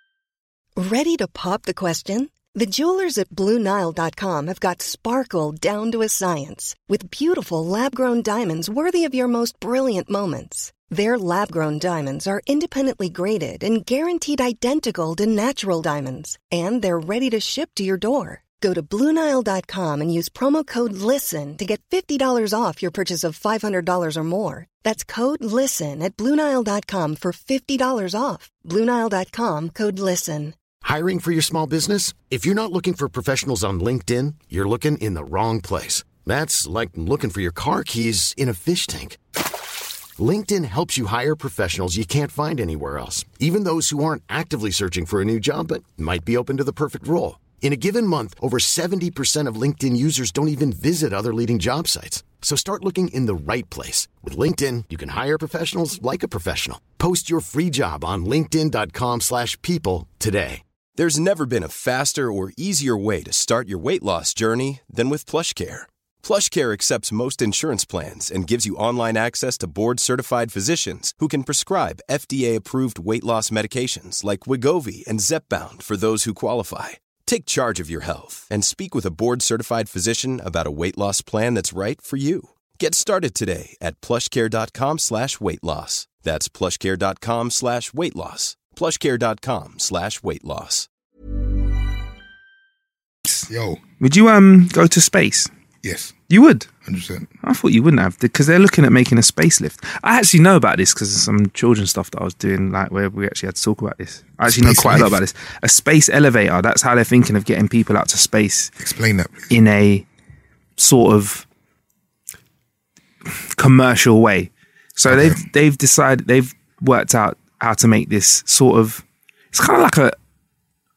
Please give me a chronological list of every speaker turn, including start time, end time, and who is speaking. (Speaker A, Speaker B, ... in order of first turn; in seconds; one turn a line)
Speaker A: 0.8-30.6
Speaker B: 30.8-39.2
Speaker B: 40.2-60.6
Speaker C: 61.0-90.9
Speaker D: 93.5-93.8
Speaker E: 94.0-95.5
Speaker D: 95.8-96.2
Speaker E: 96.3-96.7
Speaker D: 96.8-97.3
Speaker E: 97.4-108.7
Speaker D: 104.4-105.2
Speaker D: 108.8-109.5
Speaker E: 109.5-110.0
Speaker E: 110.8-111.5
Speaker E: 113.3-120.2
Speaker D: 115.1-115.4